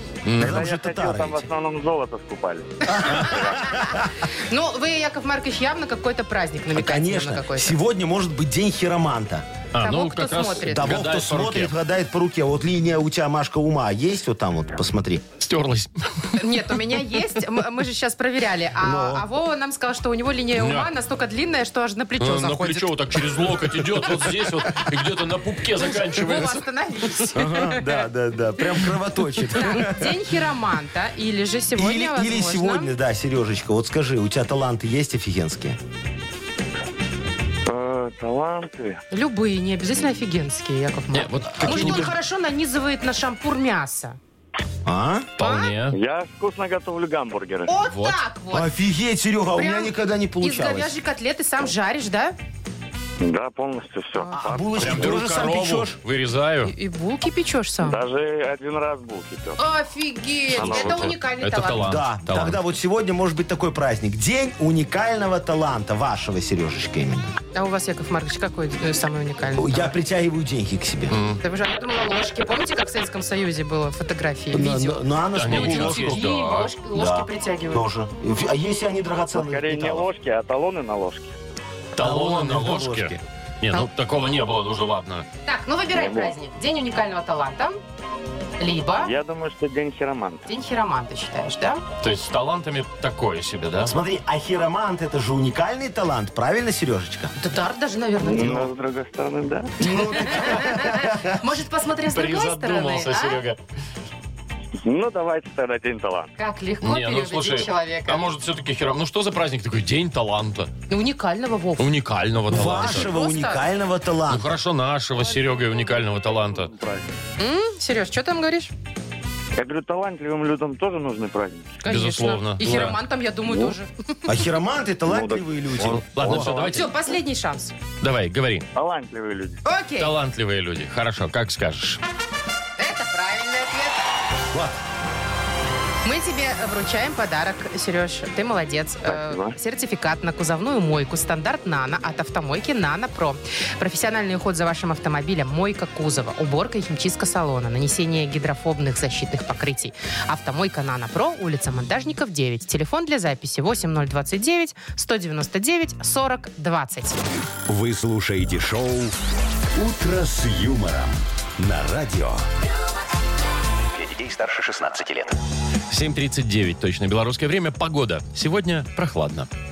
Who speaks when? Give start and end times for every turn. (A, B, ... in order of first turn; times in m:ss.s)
0:00.2-0:00.6 A
0:00.4-0:01.4 B
0:00.4-0:03.4 C
0:02.8-0:04.1 B
0:03.0-0:07.8 D
0:06.7-0:09.4 B
0:09.7-0:11.7 A
0:09.8-0:11.0 D
0:10.6-0:15.2 B
0:15.4-0:16.3 A
0:16.3-0:22.9 D
0:18.8-0:19.2 B
0:20.6-0:20.9 A
0:22.2-0:27.2 A
0:25.8-0:28.0 D
0:27.3-0:30.2 B
0:29.5-0:32.9 D
0:31.8-0:35.8 B
0:37.6-0:39.0 C
0:39.1-0:44.2 D
0:41.1-0:42.1 A
0:41.6-0:42.1 B
0:44.8-0:45.3 B
0:45.4-0:46.0 A
0:45.4-0:45.7 D
0:45.9-0:47.7 C
0:47.7-0:48.7 D
0:47.8-0:48.2 A
0:48.5-0:50.9 B
0:49.5-0:52.4 D
0:53.2-0:55.1 C
0:54.2-0:54.5 D
0:54.3-0:56.0 B
0:54.8-0:56.7 A
0:56.6-0:58.0 D
0:57.8-0:59.6 C
0:59.6-1:01.9 D
1:00.5-1:01.1 C
1:00.5-1:02.6 A
1:01.8-1:07.3 B
1:07.5-1:09.9 D
1:09.5-1:11.2 B
1:11.1-1:11.4 A
1:11.4-1:17.8 D
1:14.5-1:16.2 B
1:15.3-1:16.7 A
1:16.9-1:20.1 B
1:19.3-1:21.3 C
1:21.9-1:25.2 A
1:22.0-1:23.2 B
1:25.4-1:27.8 D
1:25.9-1:26.3 C
1:28.6-1:29.1 D
1:29.0-1:30.4 C
1:30.5-1:31.8 D
1:32.0-1:33.9 A
1:33.8-1:37.3 B
1:37.4-1:38.7 D
1:38.2-1:39.8 C
1:38.3-1:38.7 B
1:39.8-1:41.2 B
1:39.8-1:43.4 D
1:42.1-1:43.6 A
1:44.8-1:46.3 C
1:46.4-1:48.3 D
1:46.8-1:50.7 A
1:50.9-1:51.9 D
1:51.8-1:53.1 A
1:52.5-1:54.5 B
1:52.6-1:53.7 D
1:54.3-1:56.7 A
1:56.6-1:57.0 C
1:57.4-1:58.7 D
1:59.6-2:01.8 C
2:01.8-2:04.1 D
2:01.8-2:03.0 A
2:04.3-2:06.6 B
2:05.1-2:06.7 C
2:05.8-2:06.9 A
2:06.5-2:07.7 D
2:08.0-2:08.7 A
2:08.7-2:09.6 C
2:09.6-2:10.1 D
2:10.0-2:12.0 A
2:12.8-2:14.0 D
2:14.5-2:14.8 B
2:16.0-2:37.2 D
2:19.1-2:19.5 C
2:37.7-2:39.1 E
2:39.7-2:42.4 E
2:43.9-2:45.4 E
2:45.9-2:49.5 A